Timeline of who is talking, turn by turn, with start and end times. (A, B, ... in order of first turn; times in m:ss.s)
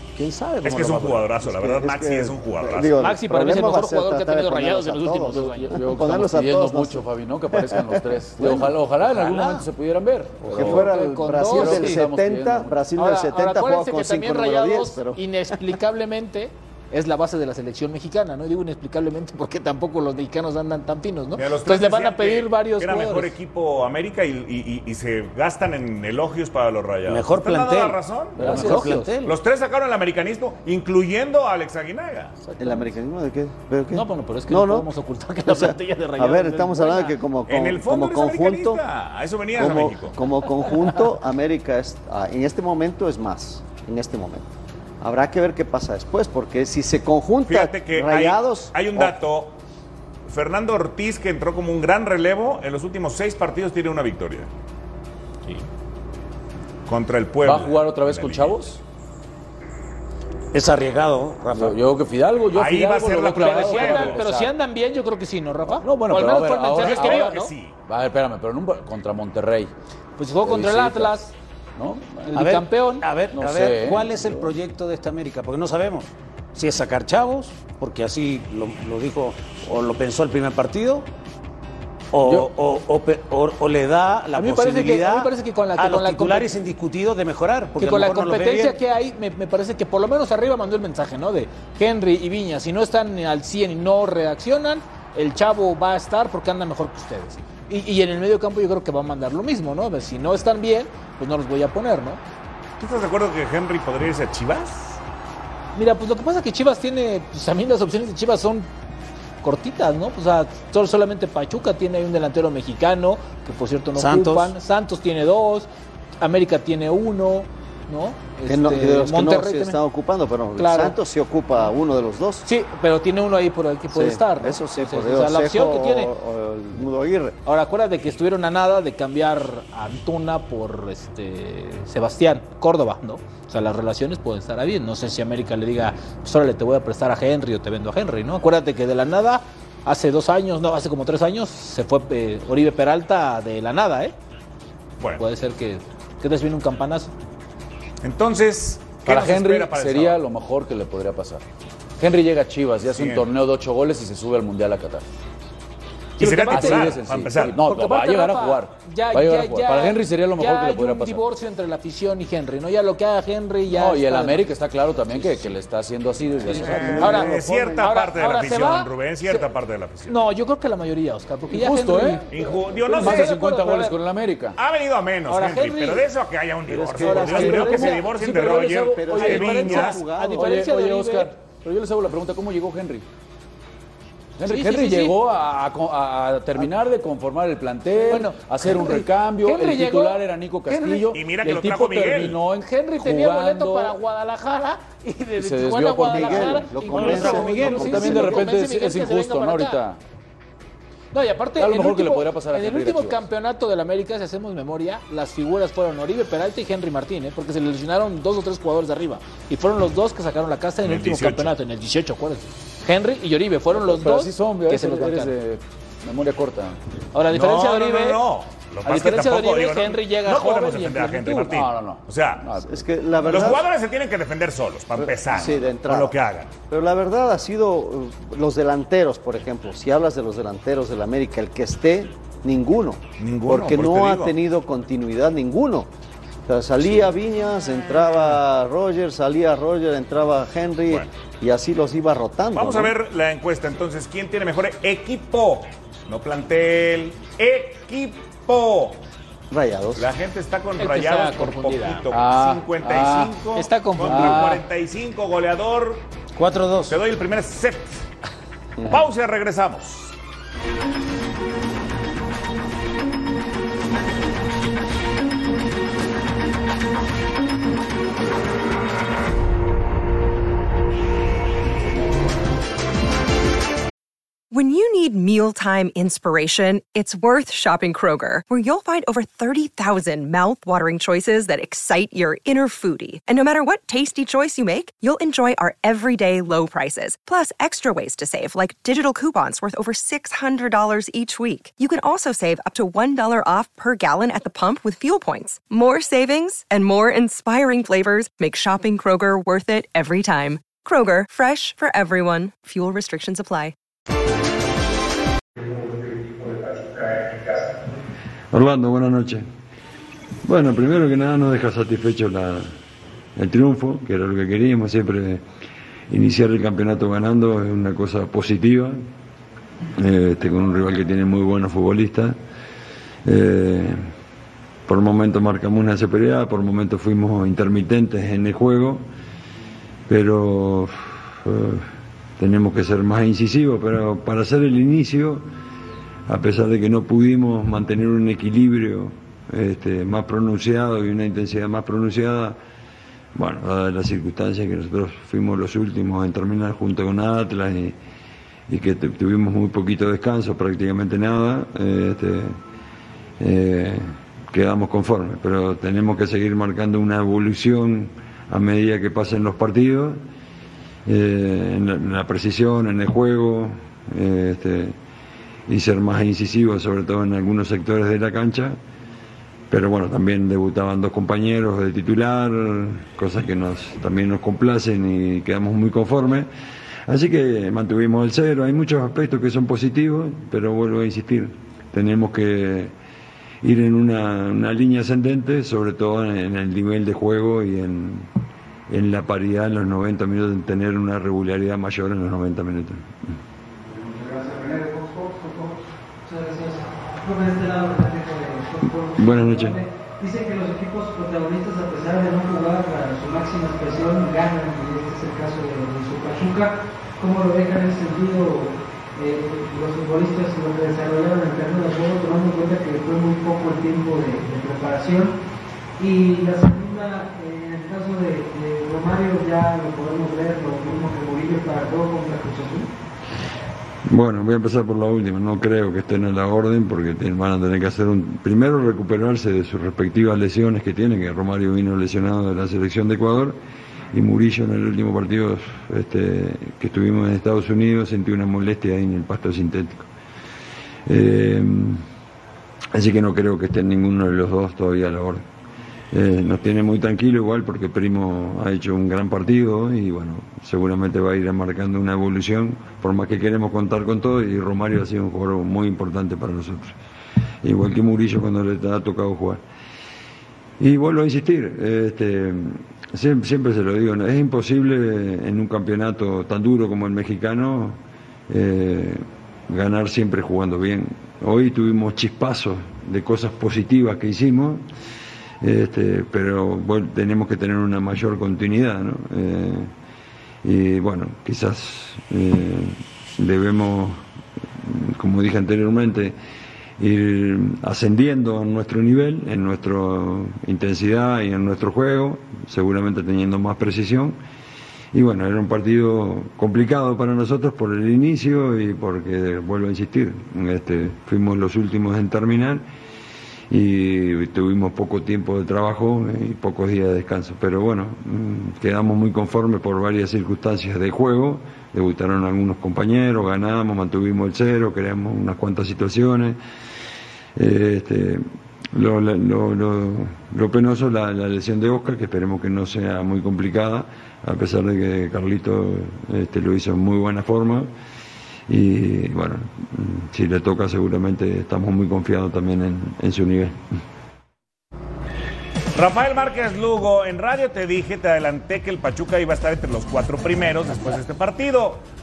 0:00.2-0:01.3 A
0:00.6-0:03.0 B
0:01.4-0:08.7 C
0:03.0-0:05.8 D
0:05.6-0:12.8 E
0:08.4-0:09.7 A
0:10.5-0:15.2 C
0:10.6-0:12.0 D
0:12.9-0:23.3 D
0:21.4-0:28.6 B
0:27.1-0:29.4 A
0:28.4-0:29.2 D
0:28.4-0:28.8 E
0:29.2-0:32.4 B
0:32.6-0:34.9 C
0:33.9-0:37.2 D
0:35.4-0:38.8 C
0:37.5-0:40.2 B
0:39.6-0:44.5 C
0:45.0-0:49.1 C
0:47.4-0:49.6 B
0:50.3-0:54.5 B
0:56.9-0:58.6 B
0:57.4-0:58.8 E
1:00.5-1:01.8 A
1:01.5-1:04.5 E
1:02.5-1:04.2 B
1:03.3-1:07.5 D
1:05.7-1:09.7 E
1:06.7-1:07.7 B
1:10.2-1:11.3 D
1:10.4-1:11.1 E
1:11.8-1:12.4 E
1:12.3-1:13.1 D
1:12.3-1:21.1 A
1:13.3-1:14.5 E
1:22.1-1:28.8 A
1:22.2-1:22.5 E
1:24.4-1:26.5 D
1:27.8-1:42.2 D
1:42.8-1:45.0 B
1:45.7-1:48.7 D
1:49.4-1:55.7 D
1:54.0-1:54.5 A
1:56.2-1:59.8 D
1:58.5-2:02.4 C
2:00.6-2:01.0 D
2:02.4-2:06.1 D
2:03.9-2:07.4 C
2:07.4-2:24.1 D
2:25.2-2:27.1 D
2:28.0-2:30.2 B
2:29.0-2:31.4 E
2:32.0-2:35.0 E
2:32.9-2:33.3 B
2:36.2-2:37.6 B
2:36.2-2:44.5 D
2:36.2-2:41.2 E
2:43.7-2:47.3 E
2:45.1-2:45.5 D
2:46.5-2:49.5 D
2:46.5-2:50.2 B
2:46.6-2:47.8 C
2:50.1-2:52.3 D
2:51.5-2:54.6 E
2:52.3-2:53.4 B
2:52.9-2:54.0 D
2:54.6-3:00.1 B
2:55.3-2:56.1 D
2:56.7-2:57.9 C
2:57.0-2:58.6 D
2:57.1-3:03.0 E
2:58.6-3:00.6 C
2:59.1-3:01.3 D
3:04.4-3:14.0 E
3:04.4-3:05.2 D
3:08.0-3:11.2 D
3:11.1-3:12.4 B
3:12.5-3:19.8 D
3:15.4-3:20.0 E
3:16.1-3:18.5 C
3:16.9-3:18.0 A
3:21.1-3:35.3 D
3:21.6-3:23.2 E
3:30.8-3:31.6 B
3:33.7-3:36.8 E
3:37.1-3:38.2 D
3:37.3-3:42.4 B
3:38.8-3:41.5 D
3:41.4-3:42.8 E
3:42.6-3:43.7 C
3:43.2-3:46.5 B
3:45.0-3:46.2 C
3:46.7-3:55.9 C
3:53.2-3:54.3 B
3:56.5-4:02.9 C
4:02.5-4:09.0 B
4:09.5-4:10.1 C
4:09.9-4:16.1 B
4:10.8-4:12.1 D
4:12.1-4:13.4 E
4:13.5-4:14.6 D
4:14.0-4:14.6 E
4:16.4-4:17.0 A
4:16.9-4:18.1 B
4:18.9-4:20.1 B
4:34.5-5:03.7 F
5:08.5-5:09.4 G
5:10.4-5:12.7 G
5:13.4-5:15.4 G
5:16.1-5:19.0 G
5:20.0-5:22.3 G
5:23.2-5:24.0 G
5:24.9-5:29.0 G
5:30.1-5:31.9 G
5:32.4-5:35.4 G
5:36.3-5:42.6 G
5:43.3-5:48.0 G
5:48.7-5:52.6 G
5:53.4-6:00.2 G
6:01.0-6:05.0 G
6:05.7-6:08.8 G
6:09.7-6:16.5 G
6:17.1-6:22.9 G
6:23.6-6:28.3 G
6:28.9-6:33.3 G
6:33.9-6:55.4 H
6:39.2-6:39.8 G
6:56.0-7:02.9 H
7:04.1-7:13.6 G
7:14.1-7:20.1 G
7:21.1-7:22.0 G
7:22.9-7:25.4 G
7:26.1-7:37.0 G
7:37.6-7:39.6 G
7:40.8-7:48.0 G
7:48.5-7:54.8 G
7:55.6-7:59.9 G
8:00.6-8:04.2 G
8:04.8-8:06.3 G
8:07.0-8:14.4 G
8:15.1-8:22.8 G
8:23.7-8:36.6 G
8:37.6-8:47.9 G
8:48.7-8:53.8 G
8:55.9-9:02.0 B